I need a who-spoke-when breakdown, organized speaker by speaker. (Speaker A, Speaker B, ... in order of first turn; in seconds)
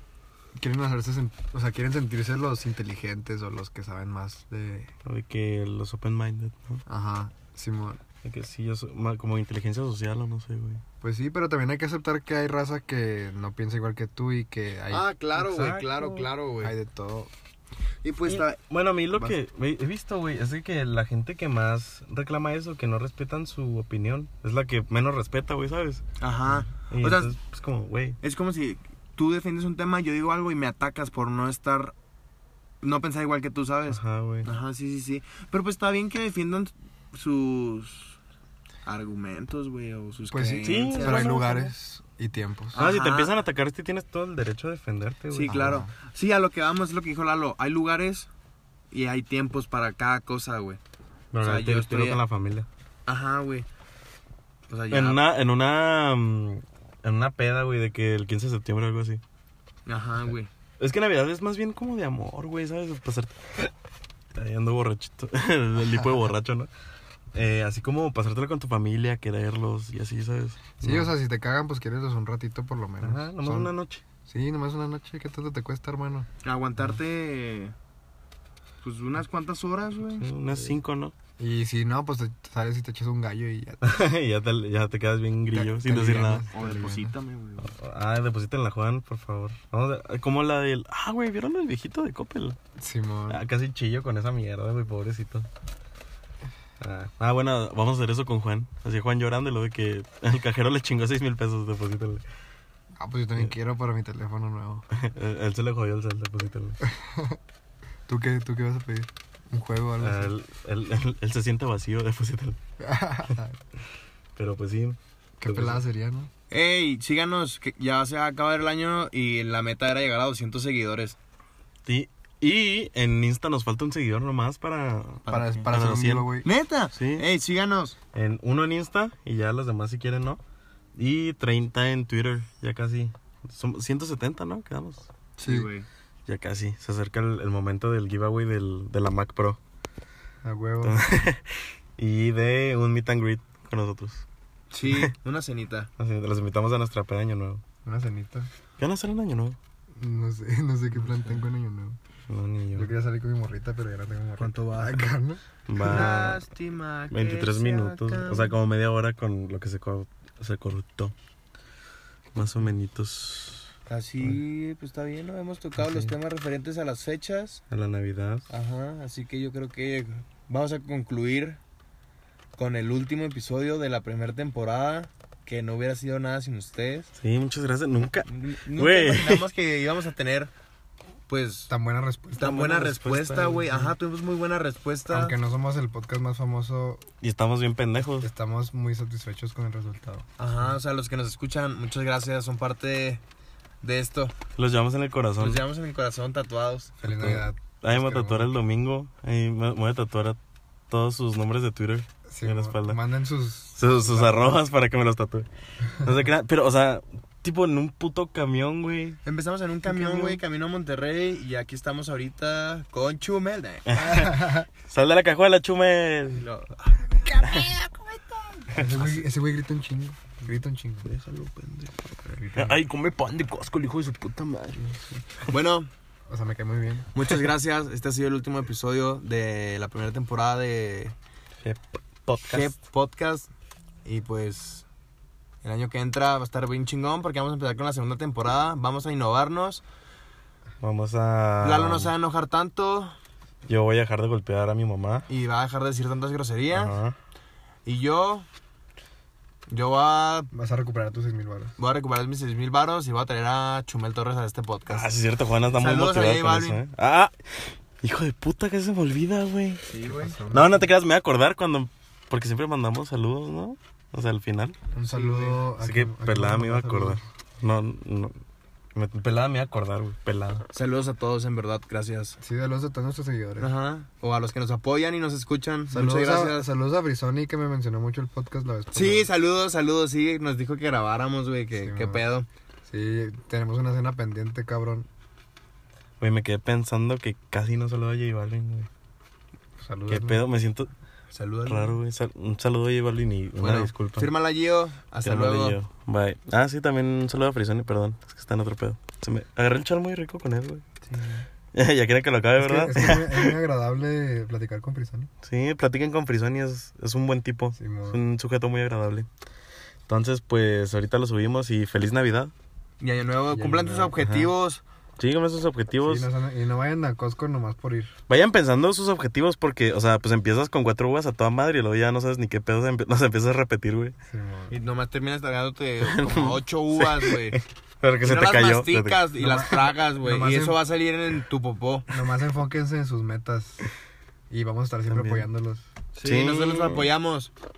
Speaker A: 0.6-4.9, 6.9-8.0, 11.0-15.9, 16.6-17.3, 40.3-42.8, 45.5-45.9, 70.8-73.7, 74.3-76.3, 81.4-84.0, 85.5-87.1, 92.8-93.4, 103.0-104.8, 106.8-107.4, 108.1-110.3, 112.8-113.6, 115.4-116.3, 125.3-126.5, 135.4-135.7, 140.4-141.0, 147.8-148.5, 149.9-152.0, 152.7-156.2, 181.7-182.7, 185.1-187.0, 188.1-190.2, 197.0-198.5, 202.3-204.6, 209.9-210.4, 214.0-214.7, 218.7-221.1, 222.3-222.8, 226.3-227.1, 250.5-251.7, 260.0-260.9, 264.9-267.2, 272.4-273.7, 275.9-279.3, 281.8-282.2, 282.9-285.1, 289.8-290.4, 302.6-305.3, 307.8-308.2, 313.5-314.2, 316.0-318.1, 324.3-324.7, 329.4-330.8, 332.1-333.8, 334.5-335.9
Speaker B: 5.0-6.8, 8.2-10.8, 15.4-16.2, 18.3-26.0, 26.9-28.2, 33.9-34.5, 40.6-41.7, 42.8-45.7, 51.3-52.7, 54.9-59.2, 60.8-63.7, 64.3-66.7, 67.3-71.1, 73.0-74.0, 80.2-81.1, 83.8-86.5, 87.6-92.6, 93.3-95.5, 96.8-102.2, 104.9-106.8, 110.0-112.6, 114.3-115.8, 121.8-126.3, 126.9-127.2, 128.1-130.4, 130.9-135.1, 136.3-139.6, 140.8-144.2, 144.8-145.1, 146.0-147.6, 148.8-149.6, 152.3-152.9, 155.7-156.4, 157.1-161.1, 162.3-163.7, 165.8-166.1, 167.7-168.5, 177.1-179.4, 182.4-183.7, 187.2-188.3, 194.5-195.6, 197.0-200.4, 200.9-203.0, 203.8-209.2, 213.9-216.4, 217.4-217.7, 218.7-219.2, 221.1-225.2, 231.6-232.7, 240.8-242.1, 243.7-245.3, 246.7-247.2, 254.9-259.9, 260.5-264.8, 265.8-268.4, 268.9-270.6, 286.2-288.9, 290.1-290.9, 291.6-294.3, 295.2-300.8, 301.7-303.5, 305.4-309.3, 310.1-312.5, 314.2-314.5, 315.2-316.3, 318.3-324.1, 326.0-329.3, 335.1-335.4, 336.2-337.1
Speaker C: 14.9-16.7, 18.0-18.6, 26.2-27.3, 28.2-31.9, 32.8-38.2, 38.8-41.3, 42.7-43.3, 45.3-48.3, 48.9-50.8, 51.4-52.2, 53.1-53.6, 54.7-55.2, 59.9-60.5, 76.4-77.7, 78.8-80.3, 86.5-87.7, 116.5-121.2, 125.2-125.7, 126.4-128.0, 135.4-135.8, 144.7-145.9, 151.0-151.4, 154.4-155.1, 155.8-158.6, 163.9-167.6, 168.5-171.6, 172.6-177.1, 178.2-180.5, 181.3-181.7, 182.4-185.3, 190.4-193.2, 193.8-194.3, 195.4-196.9, 209.2-214.0, 216.4-218.7, 225.5-225.9, 227.1-231.1, 232.4-233.5, 234.0-234.8, 235.6-239.8, 241.6-243.2, 245.3-246.9, 247.8-248.4, 249.7-250.5, 251.8-255.1, 255.8-256.8, 259.9-260.4, 265.0-265.6, 270.7-272.4, 273.6-276.7, 278.9-282.5, 291.3-292.0, 293.6-295.8, 301.1-301.4, 313.0-314.8, 324.7-327.6, 328.2-332.1, 336.1-337.5